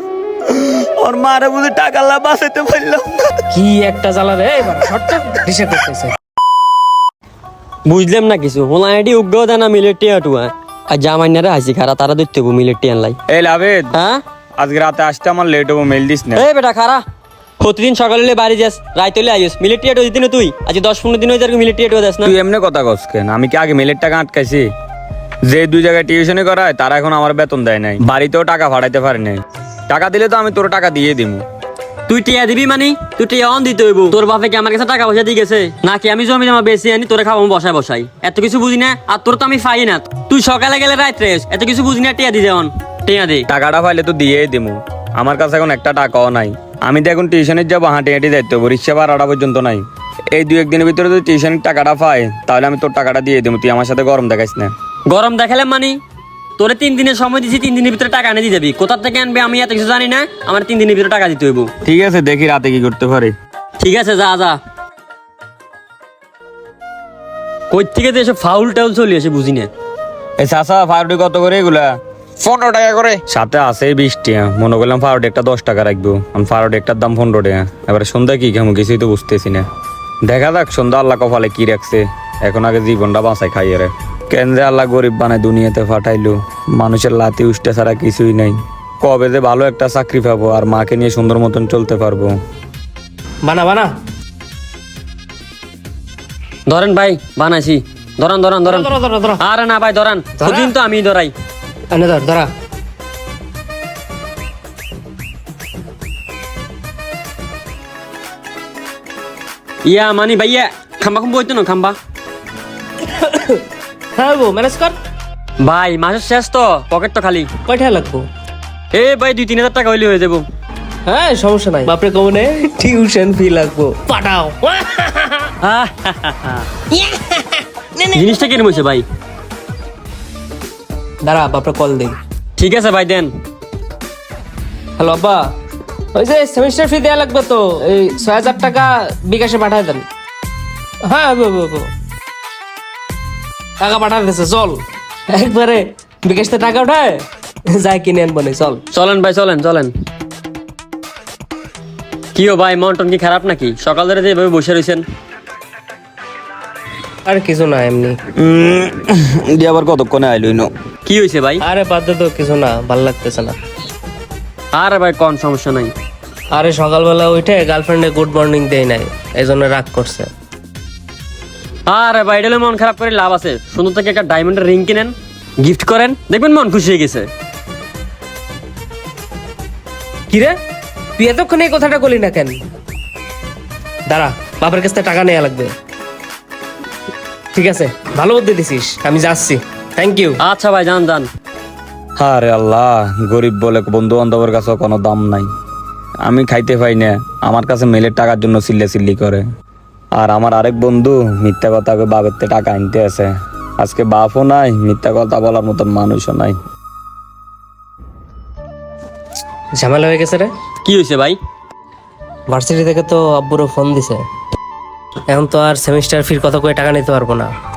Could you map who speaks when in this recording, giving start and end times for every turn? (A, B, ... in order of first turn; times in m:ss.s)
0:00.6-0:03.3 A
0:03.5-0:06.1 B
0:07.9-0:13.2 C
0:13.3-0:13.9 A
0:13.9-0:14.2 C
0:14.6-0:16.4 A
0:16.4-0:17.0 C
0:17.6-0:22.3 C
0:22.2-0:24.7 A
0:25.5-0:31.4 A
0:32.1-0:43.5 C
0:43.5-0:49.8 A
0:50.4-0:54.7 A
0:55.1-0:56.0 C
0:56.6-1:01.7 C
1:01.8-1:03.3 A
1:03.8-1:04.6 C
1:07.7-1:09.7 C
1:10.4-1:11.9 A
1:12.4-1:19.6 A
1:20.2-1:32.4 A
1:33.4-1:33.9 B
1:36.7-1:41.3 C
1:38.7-1:39.4 B
1:40.4-1:40.7 B
1:41.9-1:42.5 B
1:49.9-1:52.0 C
1:53.0-1:53.6 B
1:54.2-1:55.0 B
1:55.6-1:57.5 C
1:57.7-1:58.3 B
1:58.9-2:00.5 C
2:01.1-2:05.5 B
2:05.6-2:06.7 C
2:06.9-2:08.1 B
2:08.1-2:09.0 C
2:11.2-2:12.2 B
2:12.6-2:13.3 C
2:15.0-2:15.5 B
2:16.1-2:20.0 B
2:21.0-2:21.9 B
2:23.8-2:28.8 B
2:28.9-2:29.9 C
2:32.4-2:35.0 C
2:37.3-2:38.2 B
2:38.4-2:40.7 A
2:41.1-2:41.6 C
2:41.6-2:43.6 B
2:44.7-2:45.9 C
2:46.5-2:50.3 B
2:51.9-2:57.3 C
3:00.3-3:00.6 B
3:01.2-3:02.6 B
3:04.1-3:05.8 B
3:07.5-3:10.4 B
3:10.4-3:11.3 C
3:12.2-3:15.5 A
3:16.2-3:19.4 A
3:20.2-3:26.6 A
3:29.8-3:30.5 B
3:30.8-3:31.4 C
3:32.5-3:34.2 B
3:35.3-3:37.5 B